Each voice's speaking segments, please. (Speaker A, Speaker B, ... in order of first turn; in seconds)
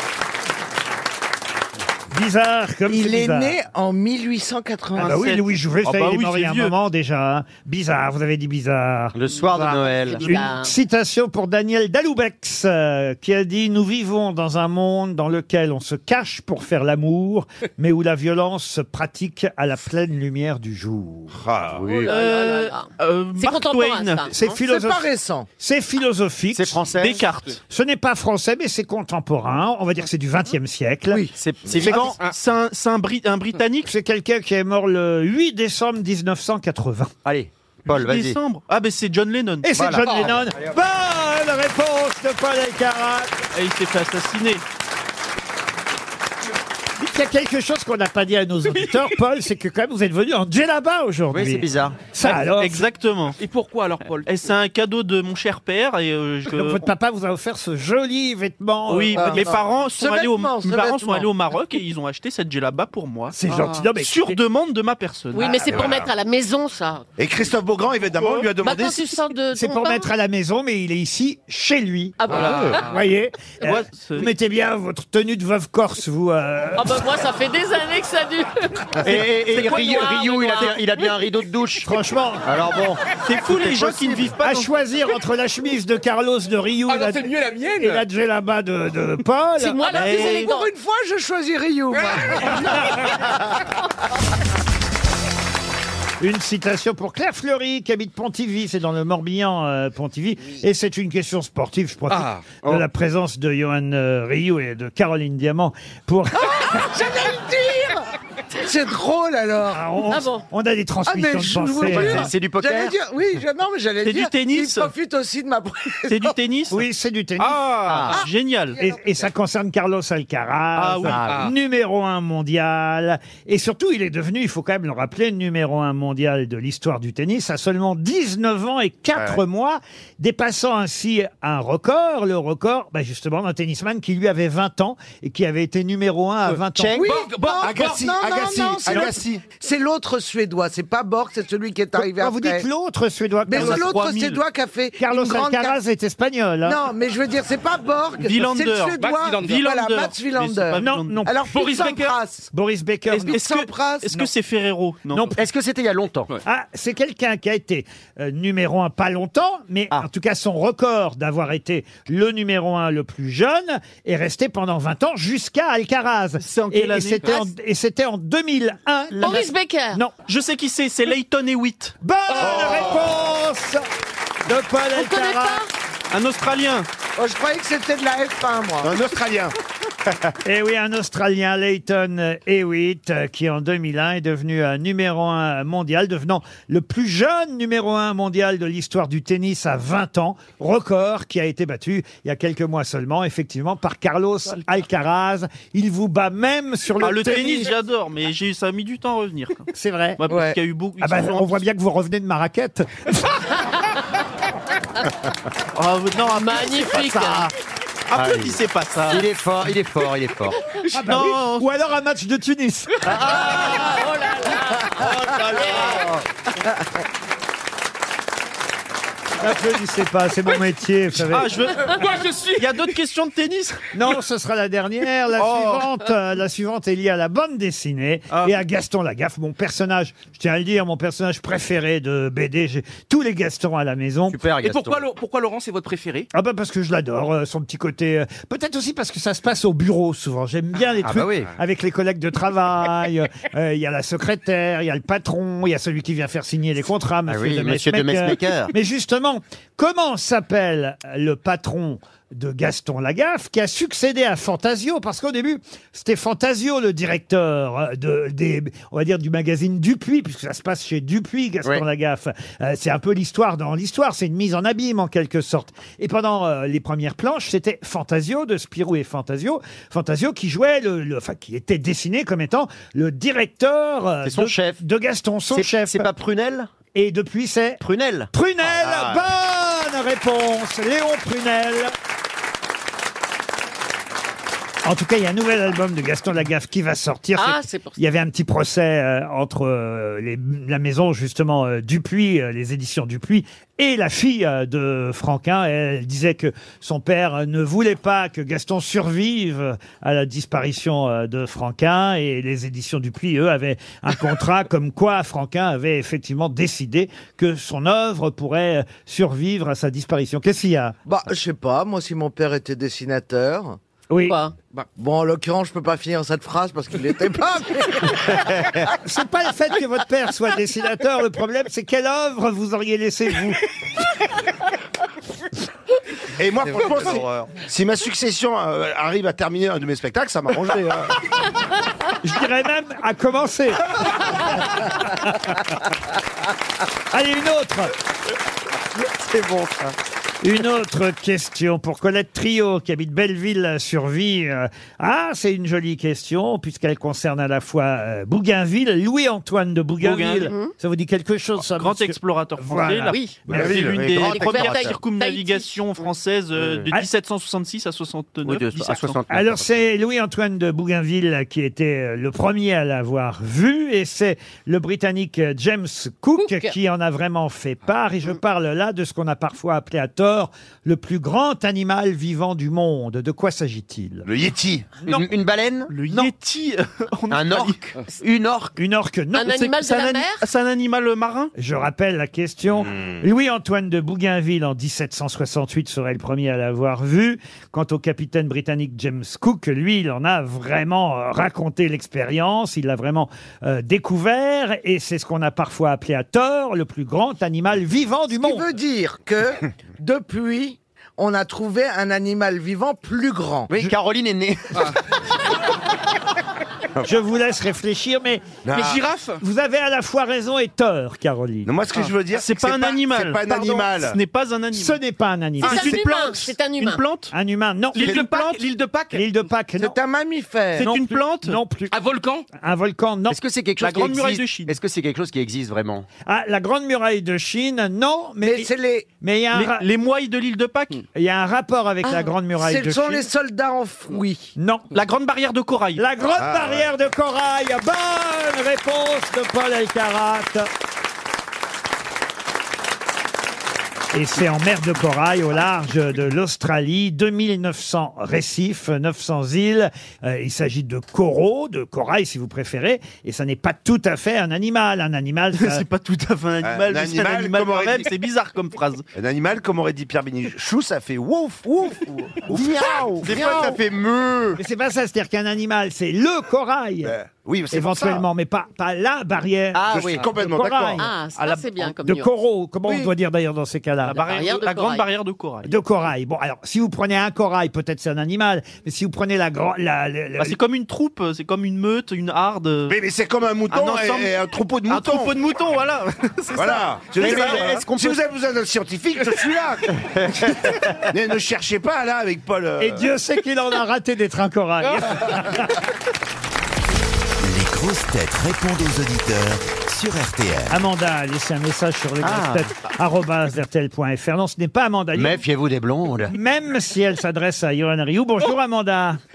Speaker A: 2.1-3.5, 5.0-9.2, 10.2-21.4, 24.3-26.8, 27.7-31.2, 33.9-37.1, 39.6-43.3, 47.0-52.9, 56.5-59.5, 63.3-64.4, 69.5-77.1, 81.8-82.4, 84.4-90.4, 96.2-106.8, 109.7-112.3, 116.7-118.0, 118.8-137.1, 138.9-139.1, 141.9-143.9, 145.0-146.8, 150.8-151.7, 152.5-153.4, 155.1-155.4, 156.4-170.1, 172.0-173.8, 174.4-175.6, 180.4-197.7, 199.7-200.2, 201.0-203.2, 210.9-213.1, 219.4-221.5, 223.9-234.4, 236.3-276.1, 276.9-281.9, 284.8-311.0, 314.1-314.4, 319.0-323.7, 332.2-335.5, 337.1-337.9, 340.4-353.8, 359.3-374.3, 378.8-379.6, 381.6-398.7, 407.0-408.6, 409.4-411.7, 414.7-416.0, 417.3-418.4, 419.1-420.0, 420.8-421.9, 422.5-423.4, 426.2-429.9, 431.1-433.3, 434.6-434.9, 436.0-440.7, 444.1-455.8, 464.6-467.1, 467.7-471.1, 471.9-474.2, 475.6-480.6, 492.8-495.8, 500.7-505.4, 506.3-509.2
Speaker B: 2.9-5.2, 24.6-25.4, 31.1-31.7, 59.1-61.3, 90.0-93.1, 106.3-108.0, 108.6-109.9, 111.1-116.4, 118.2-119.2, 136.9-142.7, 143.4-145.8, 146.6-152.5, 153.2-154.2, 177.2-178.9, 200.3-200.6, 311.1-313.8, 314.9-318.4, 398.3-403.7, 419.8-420.9, 428.4-429.1, 432.6-434.5
Speaker C: 5.0-6.7, 22.1-24.2, 27.0-27.6, 31.7-33.9, 37.9-39.7, 43.5-44.6, 52.2-53.4, 54.2-56.8, 58.9-66.0, 68.2-68.5, 72.3-72.8, 73.6-74.3, 79.0-80.0, 83.2-84.7, 89.9-90.6, 114.0-114.9, 116.1-116.8, 117.9-118.8, 120.8-121.2, 143.5-144.4, 148.2-151.3, 153.1-155.4, 166.4-167.4, 170.3-171.9, 176.1-176.9, 197.0-199.7, 200.2-201.6, 205.8-207.4, 208.1-209.2, 211.0-211.7, 215.2-215.7, 221.1-223.9, 225.5-225.9, 350.0-350.5, 351.7-359.2, 375.9-378.0, 379.5-381.5, 412.3-415.0, 415.6-417.3, 417.9-418.7, 420.8-421.6, 423.8-424.8, 429.5-431.0, 434.9-436.0, 455.5-459.0, 471.4-471.9, 474.1-475.7, 480.4-483.0, 483.7-484.4, 484.9-487.7
Speaker D: 9.1-10.3, 26.5-27.3, 31.4-32.2, 37.2-38.4, 39.7-40.3, 51.3-52.0, 79.0-81.9, 82.4-84.3, 111.9-113.0, 117.8-118.2, 121.0-121.5, 136.8-137.1, 155.4-156.4, 208.1-210.6, 213.0-214.0, 215.1-216.2, 234.3-235.0, 241.0-241.5, 247.3-248.7, 274.2-274.8, 275.5-276.7, 277.8-278.3, 318.4-318.8, 326.7-327.5, 339.3-339.7, 353.6-355.0, 356.6-356.9, 358.4-359.7, 375.1-375.9, 377.3-378.7, 403.7-405.0, 423.3-426.1, 462.5-464.5, 469.7-470.2, 487.2-488.2, 490.0-491.1, 502.2-502.7, 505.1-506.3
Speaker E: 9.9-10.7, 21.8-24.3, 65.3-67.0, 68.6-70.1, 72.2-72.8, 76.8-79.0, 79.5-80.8, 89.6-90.7, 110.1-110.5, 169.2-170.0, 174.9-175.7, 206.3-207.5, 213.3-216.0, 287.4-288.0, 314.2-314.6, 350.4-350.7, 353.1-353.5, 354.1-356.1, 366.4-366.7, 379.3-380.5, 415.6-417.0, 471.0-472.3, 474.2-475.1
Speaker F: 21.4-22.1, 65.7-66.1, 67.2-69.2, 72.3-72.7, 137.6-139.4, 172.4-173.2, 178.8-179.6, 326.4-331.1, 353.5-354.2, 374.2-375.0, 408.6-409.0, 411.6-414.2, 436.3-436.9, 456.6-458.1, 459.1-464.6, 467.0-468.2, 469.9-471.1, 482.9-485.4, 486.5-490.0, 491.1-493.0
Speaker G: 40.0-40.3, 53.4-54.3, 63.5-63.8, 86.9-88.0, 117.4-118.1, 121.1-121.5, 137.0-138.0, 149.0-149.6, 151.5-152.1, 221.9-222.9, 234.6-236.3, 408.7-409.4, 418.0-419.2, 421.9-422.5, 494.8-495.1
Speaker H: 497.4-500.8